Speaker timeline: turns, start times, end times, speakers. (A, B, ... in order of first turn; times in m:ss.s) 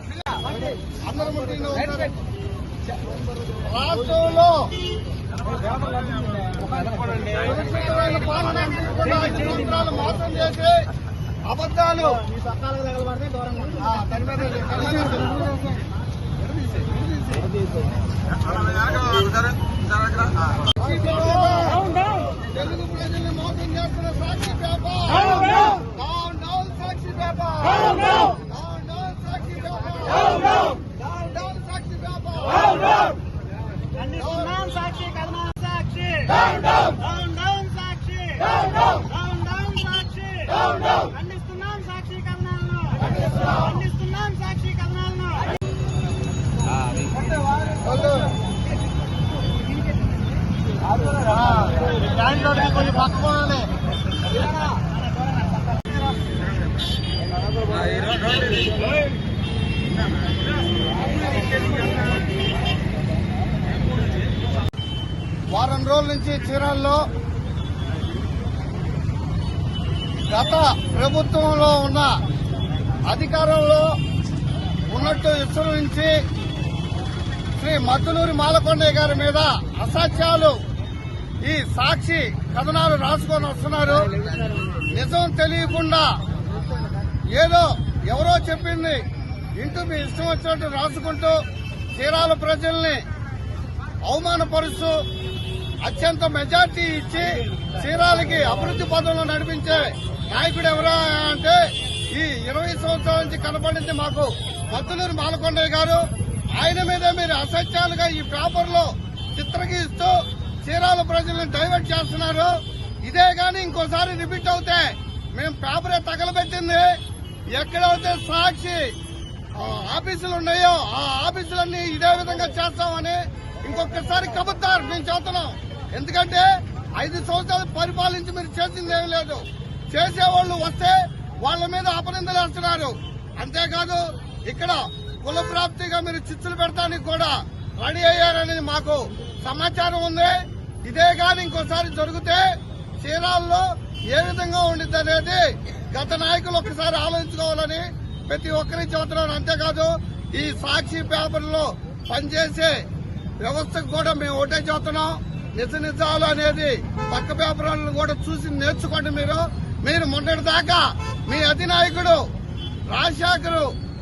0:00.1-0:02.2 A
0:03.6-0:04.7 A
0:05.7-0:07.2 B
0:07.2-0:10.8 A
0:11.4-0:12.2 A
0:12.4-0:13.8 B
0:13.8-0:15.5 A
0:18.9-0:19.3 A
0:20.6-0:33.1 A
0:34.0-0:45.5 B
0:34.1-0:34.8 A
0:51.5-0:53.7 A
1:05.5-1:07.0 A
1:10.2-1:12.2 A
1:13.0-1:13.9 A
1:14.9-1:16.1 A
1:17.6-1:20.6 A
1:21.4-1:26.1 A
1:27.3-1:29.0 A
1:29.6-1:31.4 A
1:32.0-1:33.0 A
1:34.0-1:35.0 A
1:35.8-1:41.6 A
1:42.1-1:57.0 A
1:57.5-1:59.0 A
1:59.5-2:32.8 A
2:33.4-2:42.2 A
2:42.9-2:43.7 A